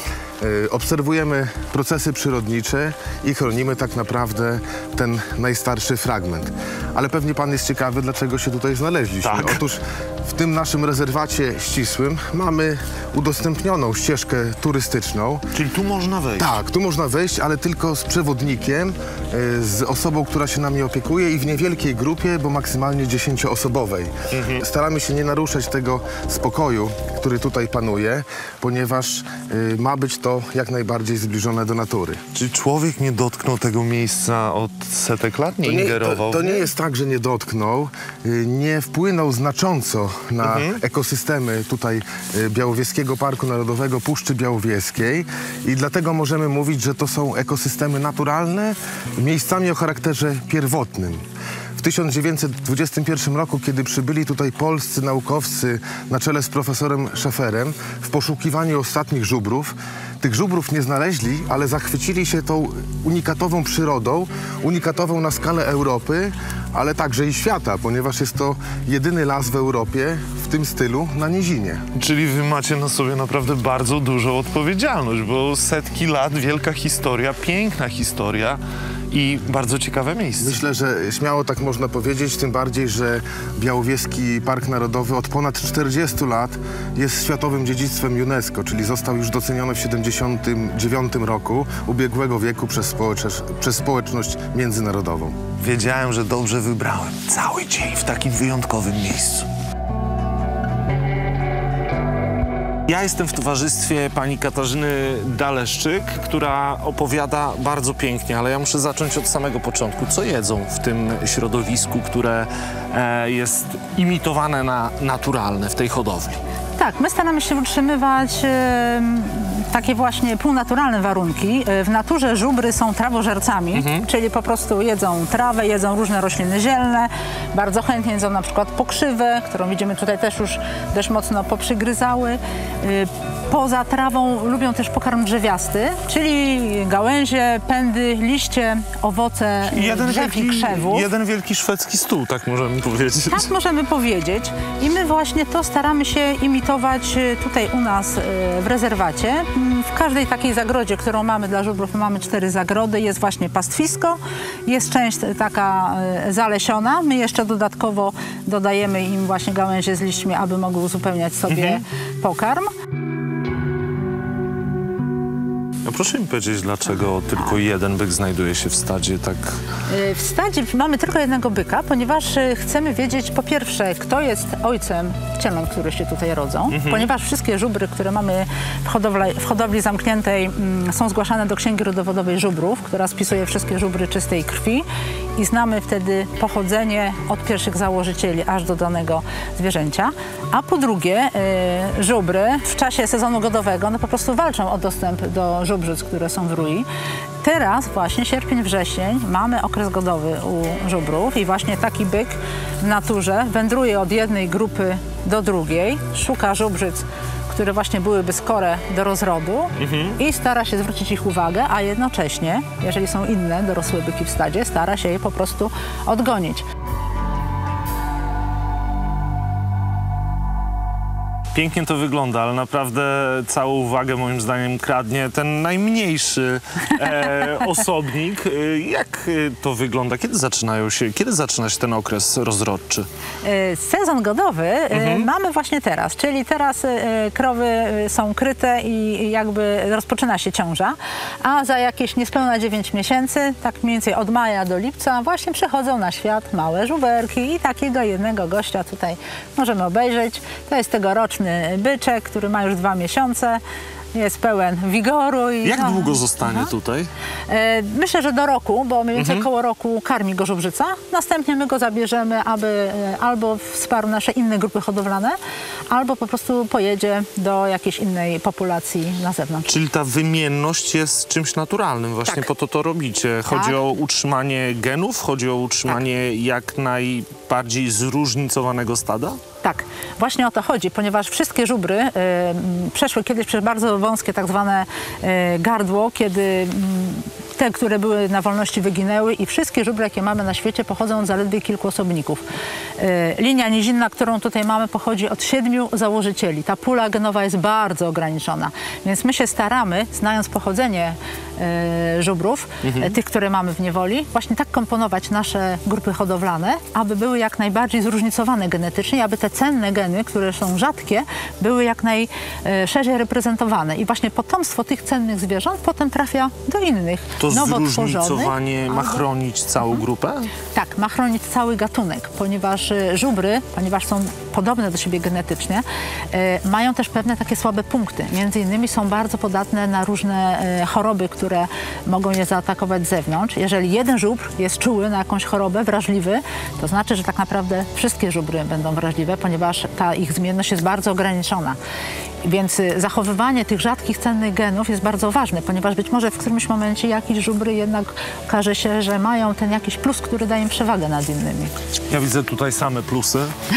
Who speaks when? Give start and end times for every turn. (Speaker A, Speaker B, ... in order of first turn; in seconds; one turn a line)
Speaker A: 0.4-15.4
Speaker B: 9.2-9.6
Speaker B: 15.5-16.6
Speaker A: 16.4-32.2
Speaker B: 24.3-24.6
Speaker B: 32.3-36.7
Speaker A: 35.6-51.2
Speaker B: 40.4-40.8
Speaker A: 51.8-71.8
Speaker B: 72.0-80.6
Speaker A: 80.4-95.4
Speaker B: 95.6-99.5
Speaker B: 102.9-116.4
Speaker C: 116.8-141.1
Speaker B: 123.7-124.0
Speaker B: 139.7-143.5
Speaker C: 143.2-162.7
Speaker B: 161.5-161.8
Speaker B: 165.8-169.4
Speaker C: 169.9-196.9
Speaker B: 176.7-177.1
Speaker C: 197.4-216.7
Speaker B: 209.8-210.2
Speaker B: 221.6-233.1
Speaker C: 233.4-253.6
Speaker B: 234.9-235.3
Speaker C: 254.1-256.7
Speaker B: 255.6-257.1
Speaker C: 257.5-265.4
Speaker B: 259.1-259.5
Speaker C: 265.9-269.7
Speaker B: 269.7-279.4
Speaker C: 273.5-273.8
Speaker C: 279.6-292.4
Speaker C: 293.0-319.2
Speaker B: 302.8-303.1
Speaker B: 317.4-320.5
Speaker C: 320.7-341.8
Speaker C: 342.4-351.8
Speaker B: 352.1-353.5